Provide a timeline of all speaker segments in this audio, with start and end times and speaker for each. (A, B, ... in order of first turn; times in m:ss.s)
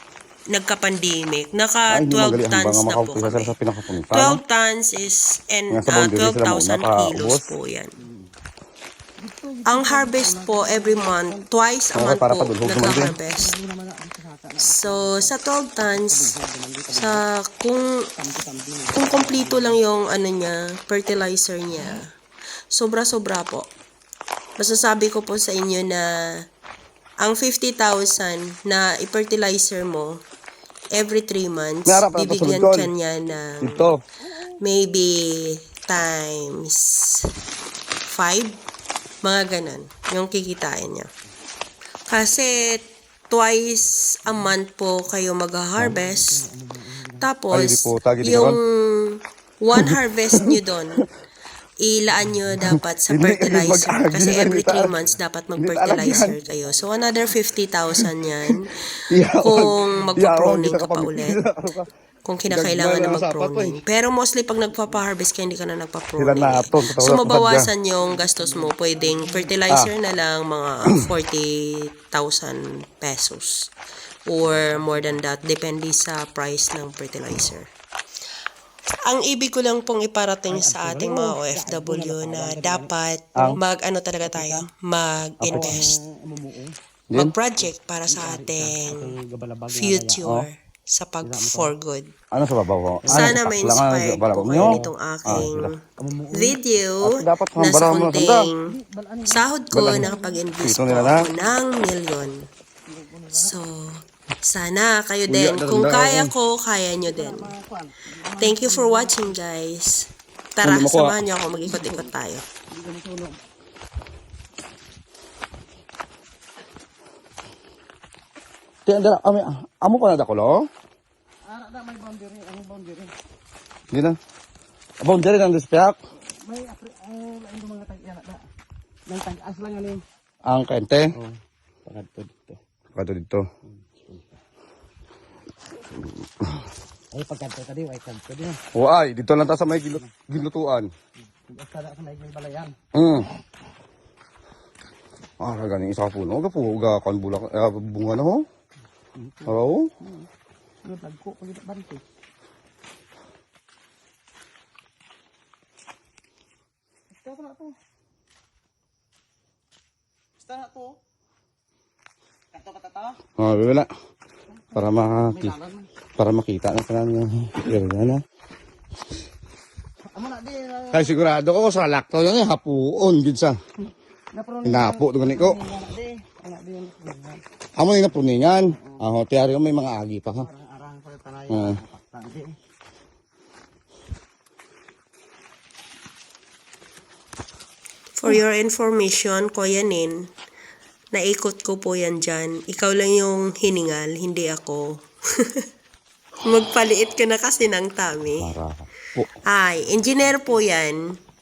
0:00.5-0:03.6 A
0:01.9-0:04.4 B
0:04.1-0:07.9 A
0:05.7-0:07.5 B
0:09.2-0:11.4 C
0:09.6-0:13.5 A
0:11.9-0:13.2 B
0:13.3-0:15.3 C
0:14.6-0:16.3 A
0:15.9-0:17.2 C
0:16.9-0:18.1 A
0:18.2-0:19.7 C
0:18.9-0:22.1 A
0:22.7-0:23.7 A
0:24.6-0:26.4 A
0:27.2-0:30.2 A
0:30.9-0:33.9 A
0:31.8-0:32.9 B
0:33.6-0:34.0 B
0:34.5-0:37.3 A
0:38.1-0:38.6 A
0:39.2-0:41.1 A
0:42.1-0:46.4 A
0:45.8-0:47.3 C
0:47.1-0:51.0 A
0:47.5-0:48.6 B
0:49.8-0:50.6 B
0:51.8-1:01.4 A
0:52.6-0:54.9 B
0:55.6-0:56.4 B
0:58.0-0:58.5 B
0:59.1-1:01.9 B
1:02.2-1:13.7 A
1:02.5-1:03.8 B
1:06.2-1:07.7 B
1:08.1-1:09.5 C
1:14.3-1:17.7 A
1:14.6-1:15.1 C
1:19.0-1:25.9 A
1:20.5-1:22.9 C
1:24.3-1:24.6 C
1:25.4-1:25.8 B
1:25.5-1:26.7 C
1:27.1-1:29.1 A
1:28.1-1:30.2 C
1:29.7-1:32.1 A
1:31.2-1:31.7 C
1:32.3-1:35.7 B
1:33.0-1:33.4 C
1:33.1-1:35.8 A
1:34.6-1:35.4 C
1:36.0-1:36.6 C
1:36.3-1:38.7 A
1:37.0-1:38.4 B
1:38.7-1:39.4 C
1:39.2-1:42.4 A
1:39.7-1:41.2 B
1:39.9-1:40.4 C
1:42.9-1:43.5 C
1:43.3-1:47.5 A
1:45.3-1:46.3 B
1:47.1-1:49.3 C
1:48.3-1:52.4 A
1:50.6-1:51.2 B
1:52.7-1:53.4 C
1:58.8-2:00.6 B
2:01.4-2:03.1 C
2:05.0-2:06.0 B
2:06.4-2:08.4 C
2:09.1-2:10.0 C
2:10.5-2:11.1 B
2:11.2-2:12.6 C
2:12.9-2:13.5 B
2:14.0-2:14.3 C
2:16.0-2:16.7 B
2:17.1-2:18.6 C
2:18.7-2:20.9 B
2:21.5-2:22.8 C
2:22.9-2:23.3 B
2:25.4-2:28.4 B
2:29.2-2:29.5 C
2:29.4-2:29.9 B
2:30.8-2:32.0 C
2:37.2-2:37.7 C
2:40.4-2:41.0 C
2:42.5-2:43.2 C
2:43.4-2:43.9 B
2:44.7-2:45.6 B
2:45.3-2:45.9 C
2:46.2-2:48.2 B
2:50.1-2:51.1 C
2:50.9-2:53.6 B
2:54.3-2:57.4 C
2:54.6-2:55.6 B
2:57.8-3:00.5 B
2:58.8-2:59.1 C
3:00.4-3:02.5 C
3:01.5-3:01.8 B
3:08.2-3:10.2 A
3:11.1-3:15.6 A
3:16.4-3:18.5 A
3:18.4-3:19.3 B
3:19.5-3:21.0 A